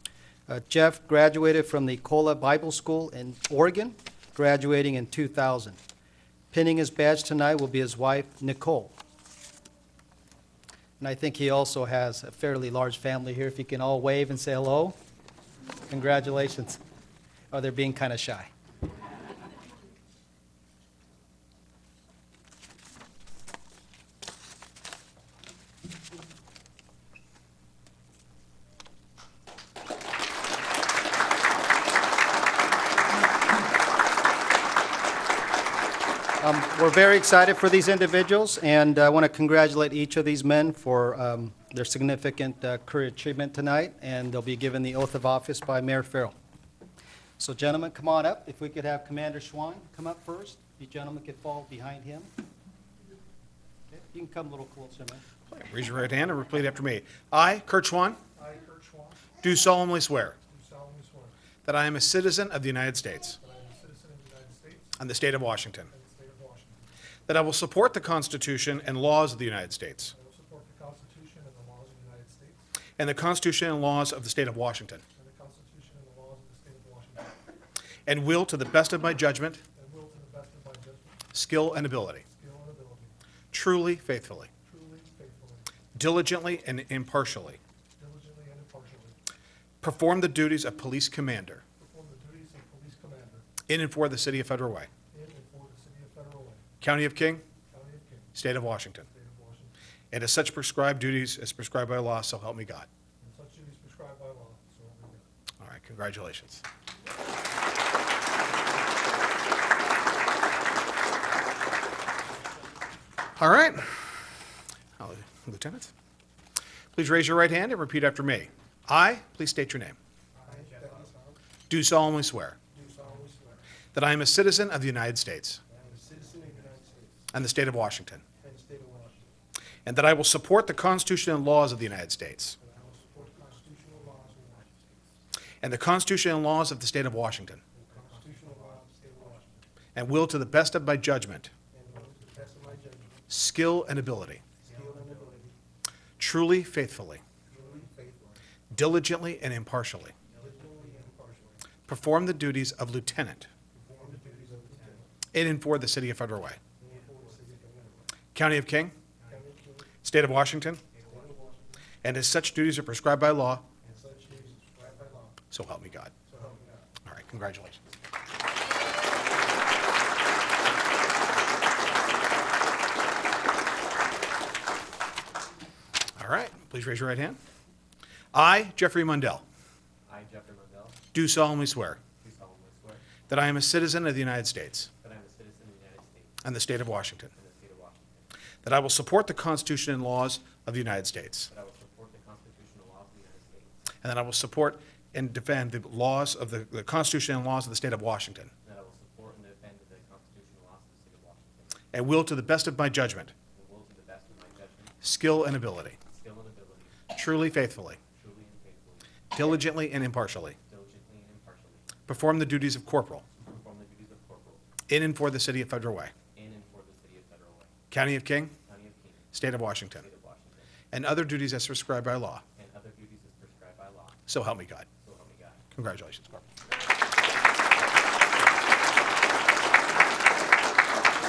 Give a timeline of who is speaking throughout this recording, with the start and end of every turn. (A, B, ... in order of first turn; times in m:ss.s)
0:00.5-0:05.8 A
0:06.5-0:09.0 A
0:11.0-0:15.0 A
0:15.9-0:16.8 A
0:17.5-0:18.5 A
0:36.4-0:46.3 A
0:47.4-0:52.3 A
0:53.9-0:55.2 A
0:55.5-0:58.2 B
0:58.4-0:59.3 C
0:59.4-1:00.4 B
1:00.5-1:01.3 C
1:01.6-1:03.4 B
1:03.4-1:05.0 C
1:05.0-1:05.9 B
1:05.9-1:06.9 C
1:07.3-1:10.1 B
1:10.1-1:12.6 C
1:13.0-1:15.0 B
1:15.2-1:17.4 C
1:18.1-1:19.6 B
1:19.8-1:21.2 C
1:21.3-1:22.2 B
1:22.3-1:23.1 C
1:23.5-1:24.5 B
1:24.7-1:25.7 C
1:26.0-1:27.6 B
1:28.0-1:29.2 C
1:29.8-1:31.6 B
1:31.8-1:33.5 C
1:33.6-1:34.9 B
1:35.1-1:36.6 C
1:36.8-1:37.4 B
1:37.7-1:38.3 C
1:38.4-1:39.1 B
1:39.1-1:39.7 C
1:40.1-1:42.9 B
1:43.2-1:45.2 C
1:45.6-1:46.6 B
1:53.4-1:53.9 B
1:55.0-1:55.9 B
1:56.9-2:00.0 B
2:00.4-2:01.0 D
2:00.4-2:01.4 C
2:01.7-2:02.6 B
2:02.7-2:03.6 C
2:03.9-2:05.6 B
2:05.8-2:07.2 C
2:07.3-2:08.2 B
2:08.4-2:09.3 C
2:09.9-2:12.6 B
2:12.6-2:14.7 C
2:12.8-2:15.0 D
2:15.6-2:17.6 B
2:17.8-2:18.5 D
2:17.9-2:19.6 C
2:20.0-2:21.5 B
2:21.7-2:23.2 C
2:23.3-2:24.4 B
2:24.6-2:25.3 D
2:24.6-2:25.6 C
2:26.2-2:27.2 B
2:27.5-2:28.4 C
2:28.7-2:30.1 B
2:30.3-2:30.7 D
2:30.4-2:31.6 C
2:31.9-2:33.5 B
2:33.8-2:35.1 C
2:34.4-2:34.9 D
2:35.3-2:36.6 B
2:36.8-2:38.0 C
2:38.4-2:38.9 B
2:39.3-2:39.9 C
2:40.0-2:40.8 B
2:40.9-2:41.3 D
2:41.0-2:41.7 C
2:42.0-2:43.7 B
2:43.8-2:45.4 C
2:45.5-2:46.1 B
2:46.3-2:46.8 C
2:47.0-2:47.8 B
2:56.2-2:57.4 B
2:58.3-2:59.4 B
3:00.0-3:01.0 D
3:01.1-3:02.0 B
3:02.2-3:03.1 D
3:03.3-3:04.9 B
3:05.0-3:06.4 D
3:06.4-3:07.3 B
3:07.3-3:08.3 D
3:08.6-3:11.5 B
3:11.5-3:13.8 D
3:14.0-3:18.5 B
3:18.6-3:21.9 D
3:21.9-3:23.3 B
3:23.5-3:25.0 D
3:25.0-3:26.0 B
3:26.1-3:27.1 D
3:27.1-3:28.0 B
3:28.1-3:29.2 D
3:29.3-3:30.6 B
3:30.7-3:32.0 D
3:32.1-3:33.2 B
3:33.4-3:34.7 D
3:34.9-3:36.1 B
3:36.3-3:37.7 D
3:37.9-3:38.6 B
3:38.7-3:39.4 D
3:39.3-3:40.1 B
3:39.9-3:40.7 D
3:40.9-3:42.4 B
3:42.6-3:44.3 D
3:44.3-3:44.9 B
3:45.0-3:45.6 D
3:45.8-3:46.4 B
3:47.6-3:48.8 D